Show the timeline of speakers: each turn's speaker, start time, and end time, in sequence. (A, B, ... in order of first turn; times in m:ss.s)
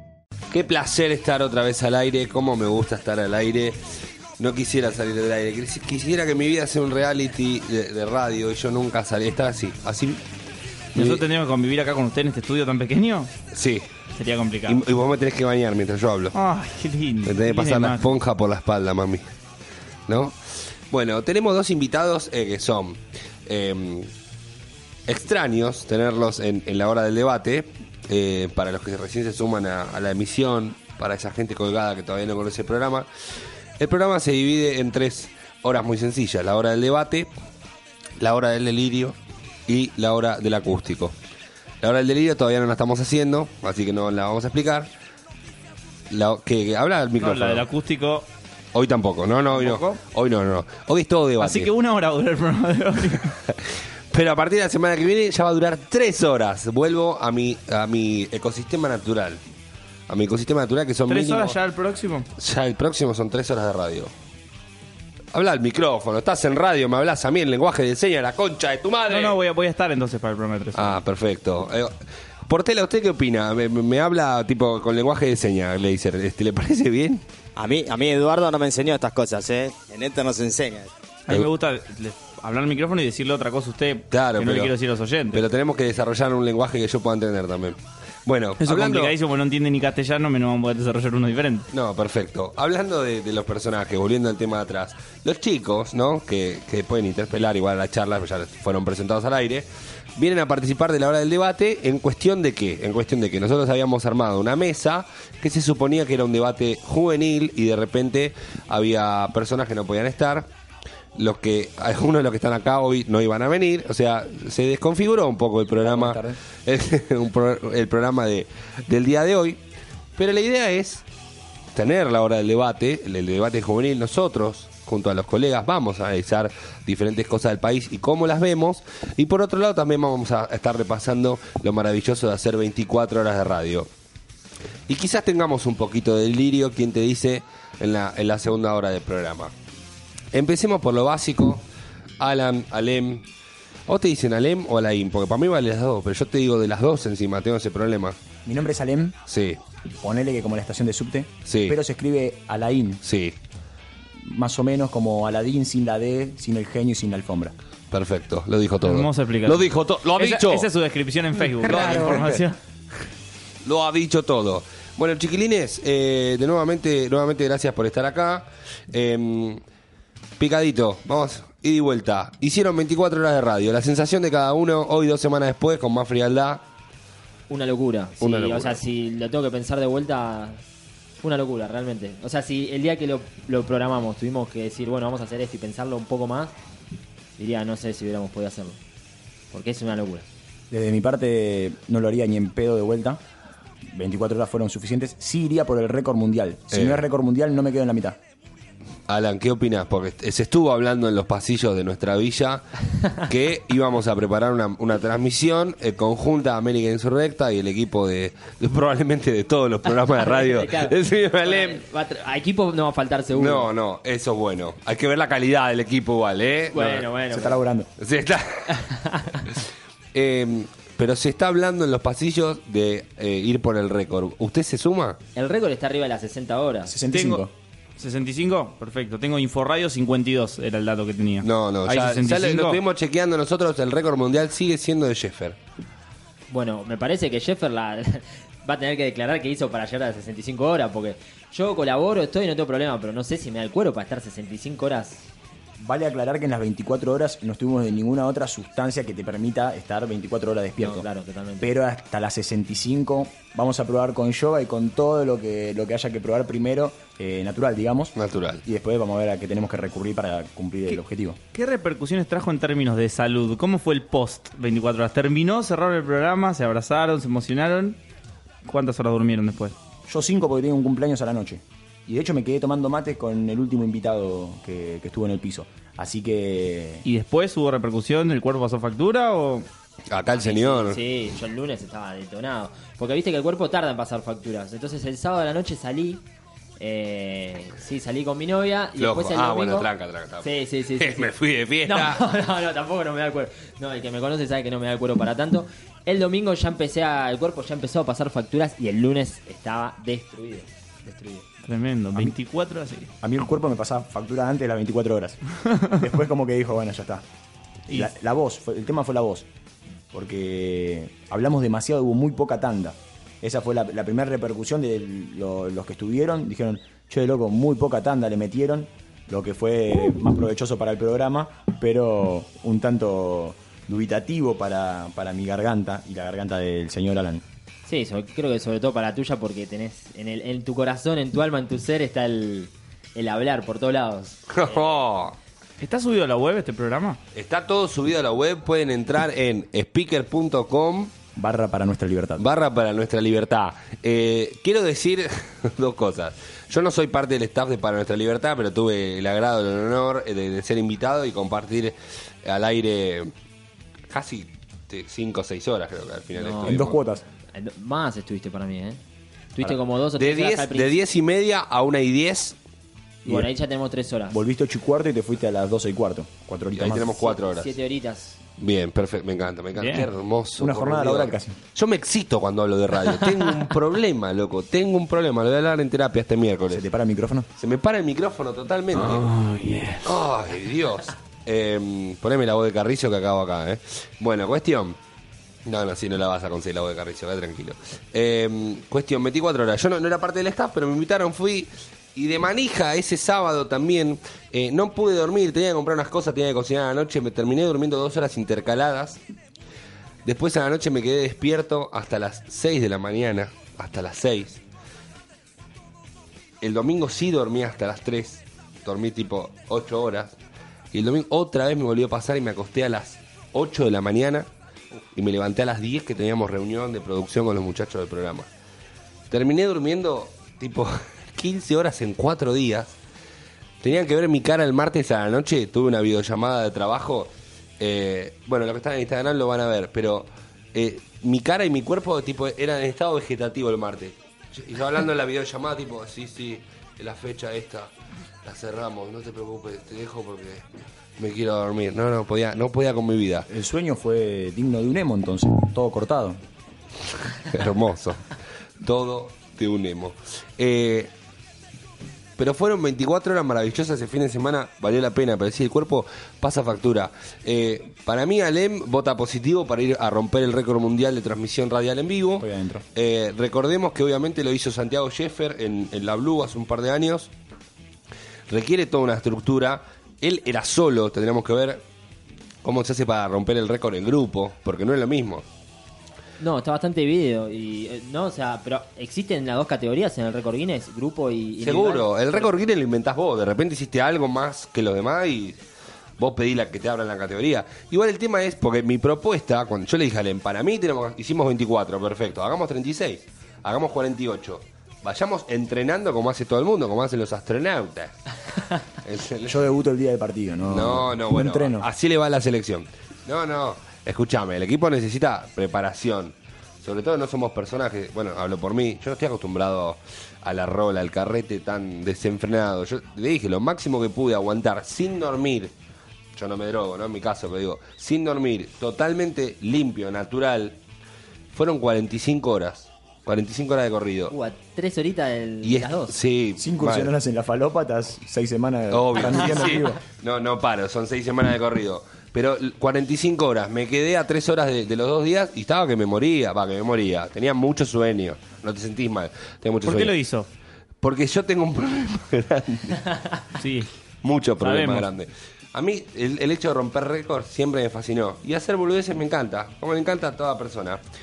0:00.5-0:03.8 A
0:04.4-0:10.2 A
0:10.9-0:13.3 B
0:11.0-0:11.2 A
0:13.5-0:13.9 A
0:14.1-0:14.8 B
0:14.7-0:16.4 A
0:16.3-0:18.1 B
0:17.3-0:19.2 A
0:20.1-0:20.4 A
0:20.9-0:24.1 A
0:25.1-0:33.1 A
0:33.8-0:37.3 A
0:38.2-0:41.2 A
0:41.8-0:44.9 A
0:46.1-0:47.7 A
0:47.2-0:48.3 B
0:48.7-0:51.7 A
0:49.5-0:50.0 B
0:51.4-0:53.3 B
0:54.1-0:59.4 A
1:00.1-1:01.6 A
1:01.1-1:02.3 B
1:02.4-1:04.1 A
1:05.3-1:09.4 A
1:09.1-1:11.0 B
1:10.8-1:11.9 A
1:12.5-1:17.2 A
1:17.6-1:20.9 C
1:21.3-1:25.4 B
1:24.1-1:24.8 A
1:25.3-1:29.2 A
1:28.6-1:31.7 B
1:31.7-1:50.5 A
1:51.2-1:59.6 A
1:55.8-1:56.4 D
2:00.2-2:01.0 A
2:01.7-2:13.9 A
2:14.9-2:19.5 A
2:20.3-2:21.6 A
2:22.2-2:23.2 A
2:23.9-2:28.2 A
2:28.4-2:29.2 D
2:29.3-2:29.6 A
2:30.0-2:33.0 D
2:31.5-2:31.8 A
2:33.0-2:33.4 A
2:34.2-2:37.5 D
2:37.9-2:40.7 A
2:38.8-2:42.6 B
2:41.5-2:42.4 A
2:43.6-2:49.6 A
2:50.4-2:56.6 A
2:57.5-3:00.6 E
2:58.2-2:58.8 A
3:01.2-3:06.5 E
3:07.4-3:08.8 E
3:09.5-3:10.3 E
3:10.7-3:13.2 D
3:13.9-3:18.2 D
3:16.7-3:17.0 A
3:19.1-3:31.8 A
3:29.9-3:33.7 E
3:33.3-3:37.1 A
3:36.7-3:37.6 E
3:37.3-3:37.9 D
3:38.0-3:38.9 A
3:38.7-3:39.5 E
3:40.1-3:45.2 A
3:45.4-3:46.9 E
3:46.9-3:47.5 D
3:47.1-3:47.4 B
3:48.0-3:52.8 B
3:51.4-3:55.6 A
3:56.5-4:05.2 E
4:05.8-4:11.1 D
4:10.8-4:11.7 E
4:11.6-4:21.4 D
4:18.2-4:18.6 A
4:21.5-4:28.0 B
4:28.6-4:29.8 B
4:30.1-4:37.0 D
4:37.0-4:39.7 B
4:40.1-4:41.0 A
4:40.3-4:46.2 E
4:46.8-4:49.9 E
4:49.0-4:52.2 A
4:50.4-5:01.5 E
5:01.6-5:03.1 B
5:03.2-5:07.2 D
5:07.9-5:09.5 D
5:10.1-5:27.4 D
5:27.9-5:35.0 E
5:34.5-5:35.4 A
5:35.8-5:37.2 B
5:37.3-5:41.1 A
5:41.4-5:42.4 D
5:42.4-5:53.3 A
5:54.1-5:57.0 A
5:56.4-5:56.9 E
5:56.7-5:57.2 D
5:57.5-5:59.0 E
5:59.6-6:01.0 E
6:00.2-6:02.6 A
6:03.2-6:04.4 E
6:04.3-6:07.3 D
6:06.8-6:07.7 A
6:07.2-6:08.4 E
6:08.6-6:16.8 A
6:09.8-6:10.1 B
6:10.6-6:11.6 D
6:16.7-6:17.5 D
6:17.6-6:19.3 A
6:19.0-6:20.1 B
6:20.0-6:25.0 A
6:25.6-6:39.2 A
6:40.2-6:44.6 A
6:46.6-6:50.4 A
6:50.9-6:54.5 A
6:55.1-6:58.5 A
6:59.3-7:03.0 A
7:03.8-7:17.9 A
7:18.4-7:20.6 A
7:21.2-7:23.5 A
7:23.5-7:26.4 D
7:27.4-7:31.1 A
7:32.4-7:47.3 A
7:42.4-7:42.8 D
7:48.5-7:51.8 A
7:52.6-7:55.4 A
7:56.4-8:02.5 E
8:01.6-8:05.6 A
8:06.2-8:18.3 A
8:19.0-8:19.6 A
8:19.5-8:21.9 D
8:20.7-8:35.7 A
8:36.4-8:40.8 A
8:41.5-8:44.3 A
8:44.3-8:46.2 E
8:45.6-8:47.1 A
8:46.6-8:50.0 D
8:48.9-9:00.2 A
8:59.8-9:00.5 B
9:01.0-9:03.2 A
9:03.6-9:03.9 B
9:04.2-9:11.0 A
9:04.6-9:05.1 B